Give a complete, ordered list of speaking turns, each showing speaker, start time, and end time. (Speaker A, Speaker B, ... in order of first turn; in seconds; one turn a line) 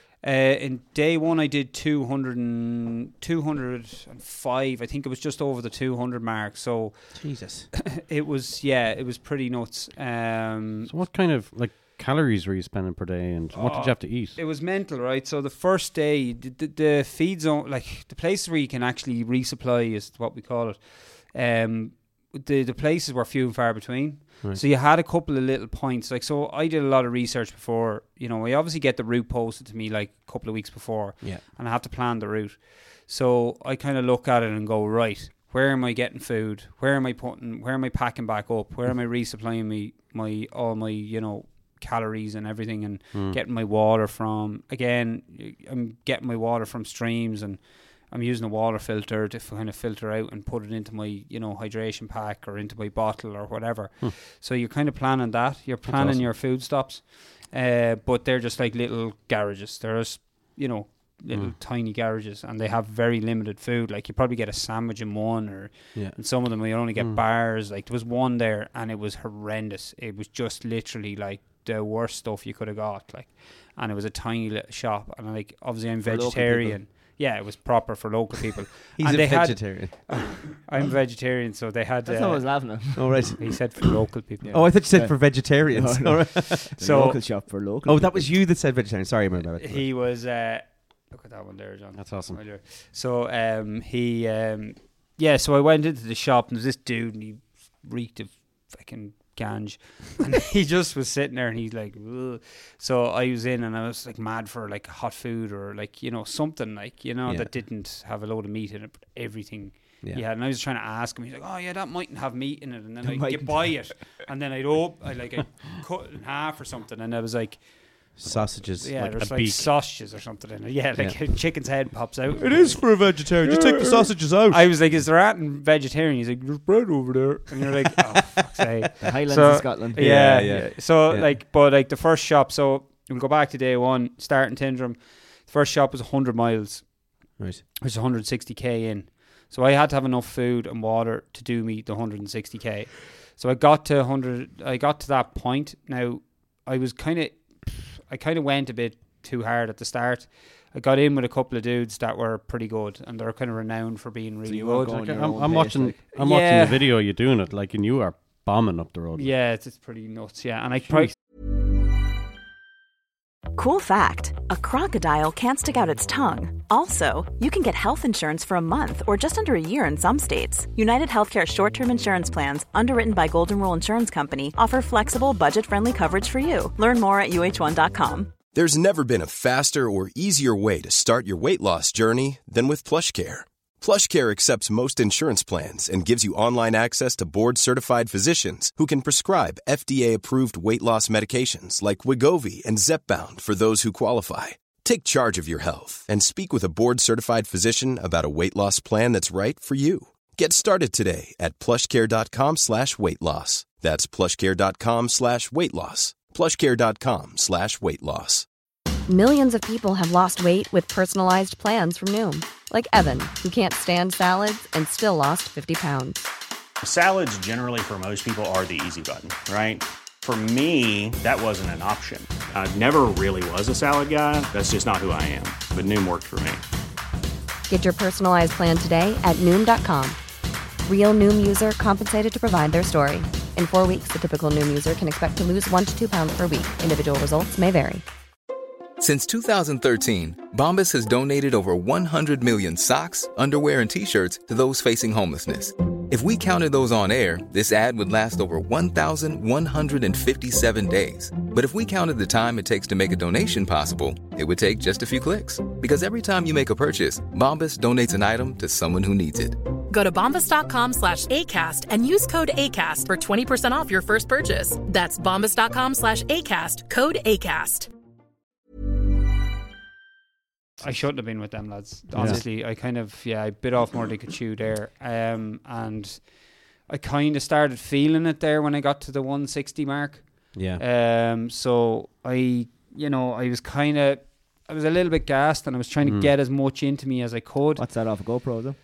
Speaker A: 0.2-10.9
Speaker B: 7.1-7.7
Speaker C: 10.9-14.4
Speaker A: 13.5-84.7
Speaker C: 43.1-43.4
Speaker B: 55.9-56.3
Speaker B: 65.9-66.2
Speaker D: 76.0-76.8
Speaker B: 79.0-80.5
Speaker D: 82.0-83.4
Speaker B: 82.9-83.9
Speaker D: 84.4-88.3
Speaker B: 84.5-86.7
Speaker A: 86.7-87.4
Speaker B: 87.8-89.9
Speaker A: 89.5-155.0
Speaker C: 92.0-92.4
Speaker B: 107.2-107.5
Speaker D: 113.0-114.1
Speaker B: 118.2-119.0
Speaker C: 118.9-119.8
Speaker B: 121.0-124.7
Speaker D: 129.0-130.4
Speaker B: 129.9-131.3
Speaker B: 137.4-137.6
Speaker D: 154.4-155.9
Speaker C: 154.9-159.3
Speaker A: 156.1-156.9
Speaker A: 159.1-161.1
Speaker E: 163.5-178.3
Speaker F: 178.5-208.4
Speaker G: 209.1-216.3
Speaker H: 216.8-226.6
Speaker G: 227.7-230.2
Speaker G: 230.8-238.0
Speaker I: 239.0-259.6
Speaker J: 259.9-267.9
Speaker A: 270.8-287.9
Speaker B: 272.1-272.4
Speaker C: 272.1-272.4
Speaker B: 280.5-280.8
Speaker D: 287.8-288.8